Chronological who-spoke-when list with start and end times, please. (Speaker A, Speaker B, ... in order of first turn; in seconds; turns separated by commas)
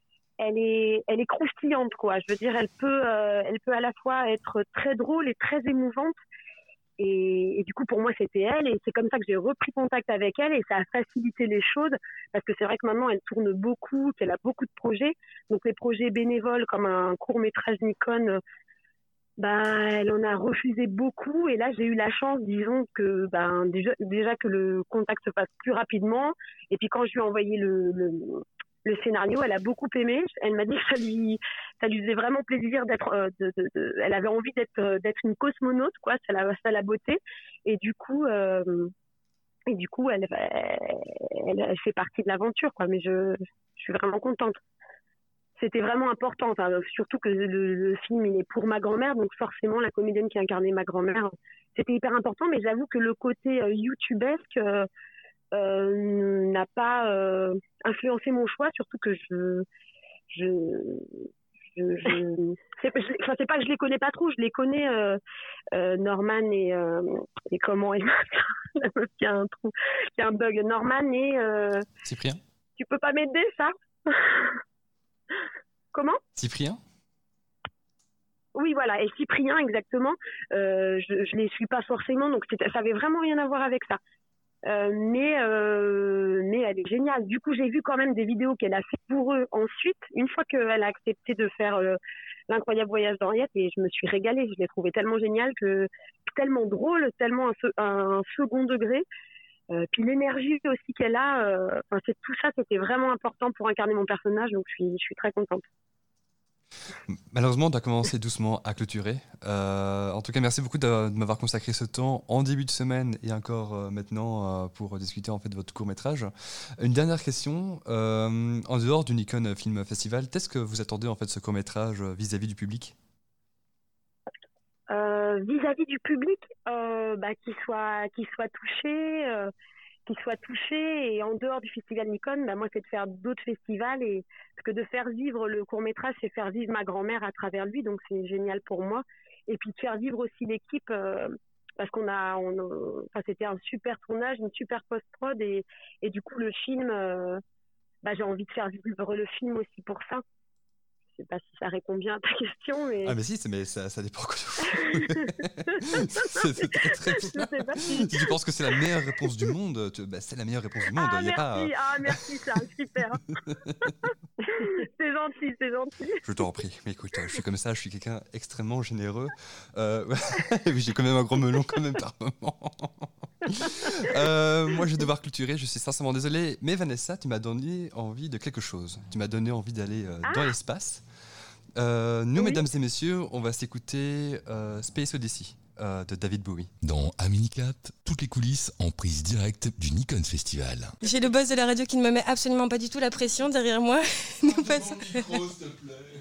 Speaker A: 0.4-6.1, Speaker A: 7.0-18.4, Speaker A: 19.4-38.9, Speaker A: 39.7-44.6, Speaker A: 45.6-54.9, Speaker A: 55.5-59.6, Speaker A: 60.3-65.2, Speaker A: 65.7-71.9, Speaker B: 72.0-72.4, Speaker A: 72.8-74.6, Speaker A: 75.9-76.2, Speaker B: 76.3-76.8, Speaker A: 78.5-84.0, Speaker A: 84.7-99.0, Speaker A: 99.7-105.6, Speaker B: 107.1-123.0, Speaker A: 124.9-129.5, Speaker A: 130.1-147.4, Speaker A: 148.0-150.2, Speaker A: 151.1-153.2, Speaker B: 153.0-162.1, Speaker A: 154.7-155.3, Speaker A: 156.2-158.3, Speaker A: 160.9-163.2, Speaker B: 163.4-163.9, Speaker A: 164.5-166.2, Speaker B: 166.2-181.0, Speaker A: 180.2-180.5, Speaker B: 181.8-186.7, Speaker A: 182.3-182.6, Speaker C: 186.8-190.9, Speaker D: 191.0-195.5, Speaker C: 195.5-195.9